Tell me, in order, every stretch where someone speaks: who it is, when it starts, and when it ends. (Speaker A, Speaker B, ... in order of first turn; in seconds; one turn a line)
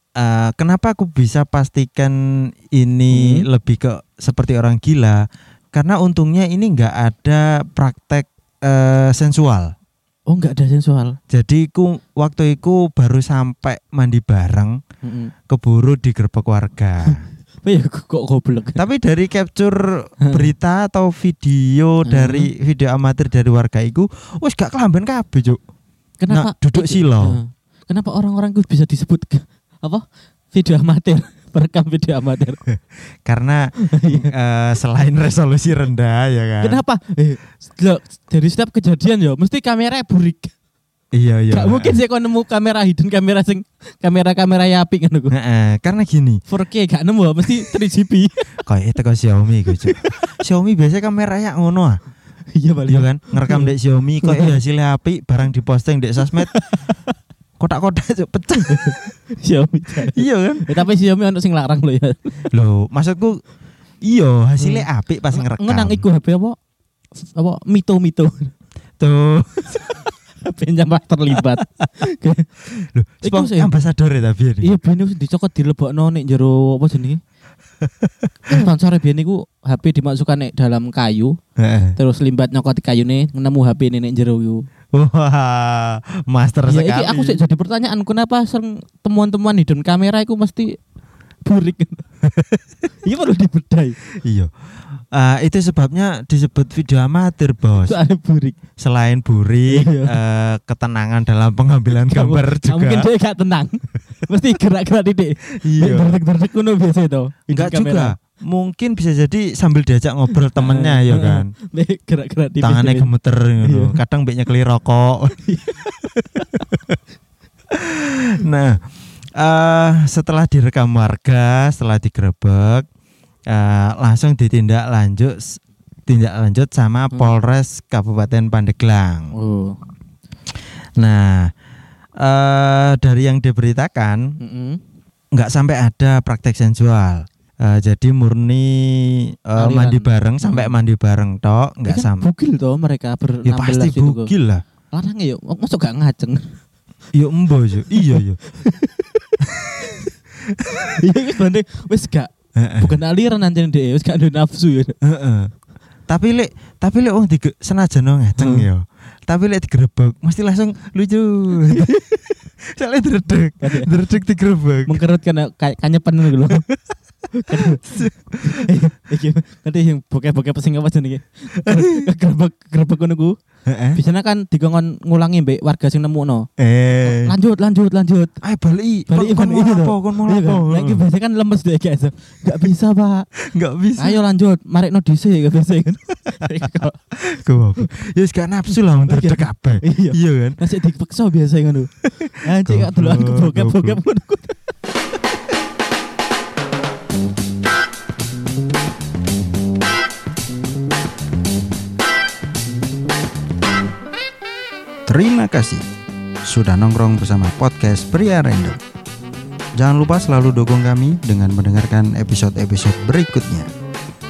Speaker A: 0.2-2.1
Speaker A: 2.7-5.2
Speaker B: 3.1-3.5
Speaker A: 5.7-9.7
Speaker B: 10.3-11.2
Speaker A: 11.3-14.8
Speaker B: 15.0-15.3
Speaker A: 15.5-17.2
Speaker B: 17.1-18.8
Speaker A: 18.8-25.6
Speaker B: 20.2-20.5
Speaker B: 22.1-22.5
Speaker B: 26.2-32.6
Speaker A: 26.3-27.4
Speaker A: 32.7-36.8
Speaker B: 33.8-34.3
Speaker B: 36.6-40.5
Speaker A: 41.1-42.0
Speaker B: 41.5-45.3
Speaker A: 45.3-46.4
Speaker B: 46.5-48.6
Speaker A: 48.6-52.0
Speaker B: 49.7-50.0
Speaker B: 52.5-54.6
Speaker A: 52.9-56.5
Speaker B: 56.4-57.1
Speaker A: 57.6-59.1
Speaker B: 58.7-62.4
Speaker A: 60.0-60.7
Speaker A: 62.5-63.4
Speaker A: 64.0-66.0
Speaker B: 64.6-66.6
Speaker B: 67.2-68.5
Speaker A: 69.0-69.9
Speaker B: 69.7-73.7
Speaker A: 71.3-71.6
Speaker A: 72.9-74.7
Speaker B: 74.6-77.2
Speaker A: 77.8-78.6
Speaker B: 78.5-81.4
Speaker A: 81.6-82.0
Speaker B: 82.0-84.7
Speaker A: 84.9-87.4
Speaker B: 86.7-90.8
Speaker B: 91.4-92.1
Speaker A: 92.2-92.6
Speaker B: 93.0-94.0
Speaker A: 94.2-94.5
Speaker A: 95.1-98.0
Speaker B: 97.8-98.6
Speaker A: 98.8-103.1
Speaker B: 99.7-100.2
Speaker B: 101.9-108.1
Speaker A: 105.6-106.2
Speaker A: 107.5-111.5
Speaker B: 110.5-114.0
Speaker A: 112.6-117.0
Speaker B: 115.4-116.7
Speaker A: 117.7-122.8
Speaker A: 123.5-129.3
Speaker B: 129.3-129.8
Speaker A: 131.0-131.5
Speaker A: 132.2-134.3
Speaker B: 134.4-134.8
Speaker A: 135.3-142.3
Speaker B: 139.6-140.8
Speaker B: 141.8-144.3
Speaker A: 143.4-144.6
Speaker B: 144.9-146.6
Speaker A: 147.1-148.4
Speaker B: 147.9-150.1
Speaker A: 149.6-150.0
Speaker A: 150.5-151.0
Speaker B: 150.9-155.0
Speaker A: 152.6-152.9
Speaker A: 155.0-155.5
Speaker A: 156.1-165.0
Speaker B: 158.4-158.7
Speaker B: 163.6-163.9
Speaker B: 164.9-166.6
Speaker A: 166.5-166.8
Speaker B: 167.3-173.3
Speaker A: 167.5-168.7
Speaker A: 171.5-172.1
Speaker A: 173.7-174.0
Speaker B: 173.9-176.5
Speaker A: 176.6-177.3
Speaker B: 177.0-178.4
Speaker A: 178.4-181.0
Speaker B: 179.1-183.3
Speaker A: 183.5-184.2
Speaker B: 184.0-187.0
Speaker A: 186.8-190.6
Speaker B: 189.1-194.7
Speaker A: 192.4-194.0
Speaker A: 205.1-205.8
Speaker A: 206.4-208.8
Speaker A: 209.8-213.7